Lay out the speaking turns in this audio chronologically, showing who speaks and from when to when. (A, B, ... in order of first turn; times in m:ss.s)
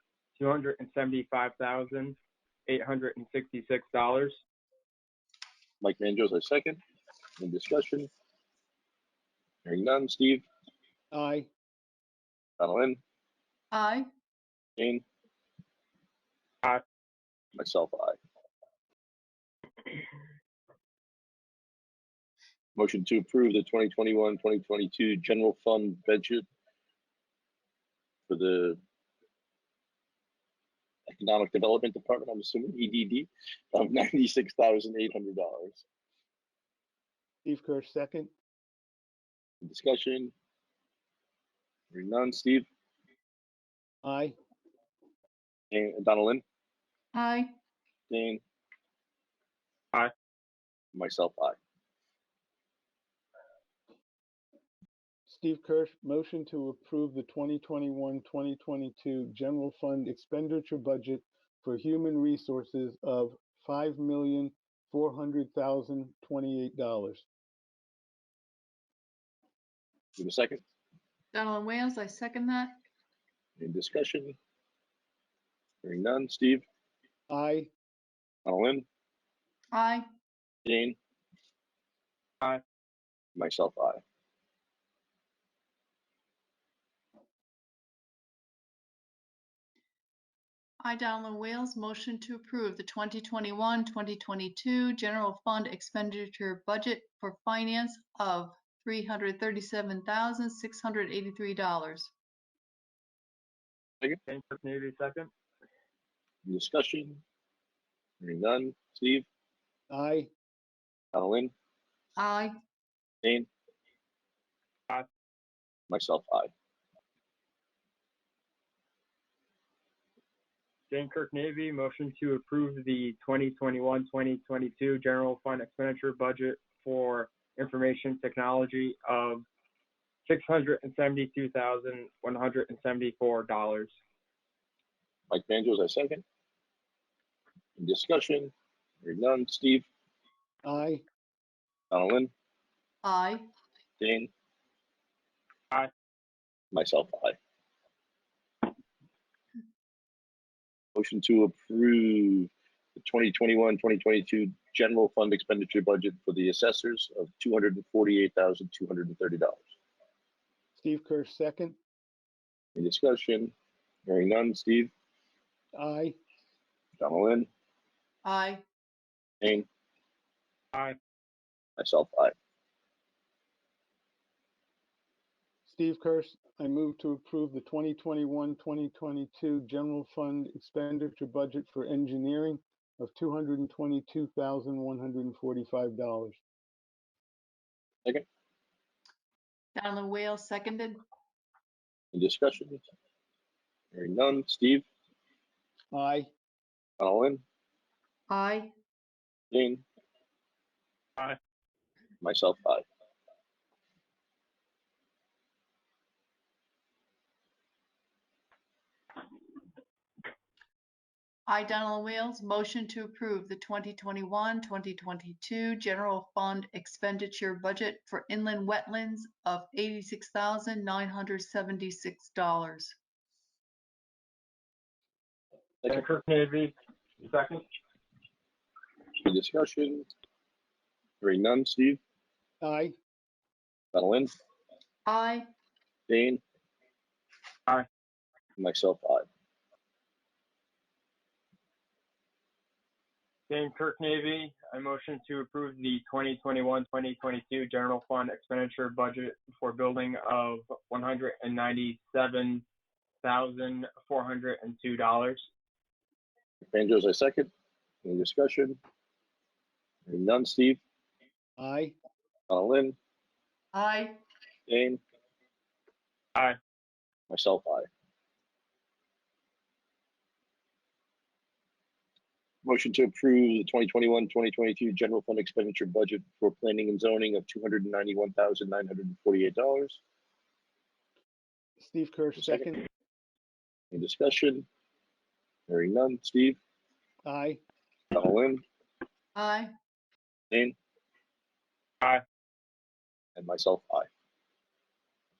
0:00.4-0:02.2 A
0:02.7-0:04.4 A
0:05.8-0:06.8 B
0:07.4-0:08.1 B
0:09.6-0:10.4 B
0:11.1-0:11.5 C
0:12.6-0:13.0 B
0:13.7-0:14.1 D
0:14.8-0:15.0 B
0:17.6-0:18.2 B
0:22.8-0:26.4 B
0:28.3-0:28.8 B
0:31.1-0:35.8 B
0:37.4-0:38.3 C
0:39.6-0:40.3 B
0:41.9-0:42.7 B
0:44.0-0:44.4 C
0:45.7-0:46.4 B
0:47.1-0:47.5 D
0:48.1-0:48.4 B
0:50.9-0:51.6 B
0:55.3-1:07.2 C
1:10.2-1:10.6 B
1:11.3-1:12.8 D
1:13.6-1:14.4 B
1:15.8-1:16.6 B
1:17.3-1:17.7 C
1:18.4-1:18.8 B
1:19.7-1:20.0 D
1:20.6-1:21.0 B
1:23.4-1:24.0 B
1:30.8-1:42.1 D
1:44.3-1:45.3 A
1:46.4-1:47.2 B
1:48.2-1:49.2 B
1:49.9-1:50.3 C
1:51.1-1:51.5 B
1:52.2-1:52.5 D
1:53.2-1:53.5 B
1:55.9-1:56.5 B
2:00.9-2:09.4 A
2:10.2-2:13.9 A
2:15.3-2:16.2 B
2:17.8-2:19.8 B
2:20.6-2:21.0 C
2:21.9-2:22.3 B
2:23.0-2:23.5 D
2:24.0-2:24.3 B
2:26.7-2:27.4 B
2:30.9-2:39.6 B
2:40.8-2:41.8 C
2:42.8-2:43.5 B
2:44.0-2:44.9 B
2:45.7-2:46.2 C
2:47.0-2:47.5 B
2:48.2-2:48.6 D
2:51.8-2:52.3 B
2:55.6-3:06.4 C
3:09.7-3:11.0 D
3:12.1-3:12.8 B
3:13.9-3:14.8 B
3:15.9-3:16.3 C
3:17.0-3:17.4 B
3:18.3-3:18.7 D
3:19.5-3:19.8 B
3:22.2-3:22.8 B
3:31.5-3:42.9 D
3:45.9-3:47.6 A
3:49.2-3:50.1 B
3:51.2-3:52.0 B
3:52.6-3:52.9 C
3:53.9-3:54.3 B
3:55.0-3:55.5 D
3:56.1-3:56.4 B
3:58.6-3:59.3 B
4:03.5-4:12.6 A
4:13.2-4:15.4 A
4:16.6-4:17.5 B
4:18.0-4:18.8 B
4:20.1-4:20.8 B
4:21.6-4:21.9 C
4:22.5-4:23.0 B
4:23.7-4:24.2 D
4:24.7-4:25.0 B
4:27.3-4:27.9 B
4:32.6-4:40.0 B
4:41.8-4:42.8 C
4:42.4-4:42.7 B
4:43.9-4:44.6 B
4:45.7-4:46.6 B
4:47.2-4:47.6 C
4:48.1-4:48.6 B
4:49.4-4:49.7 D
4:50.5-4:50.8 B
4:53.4-4:54.1 B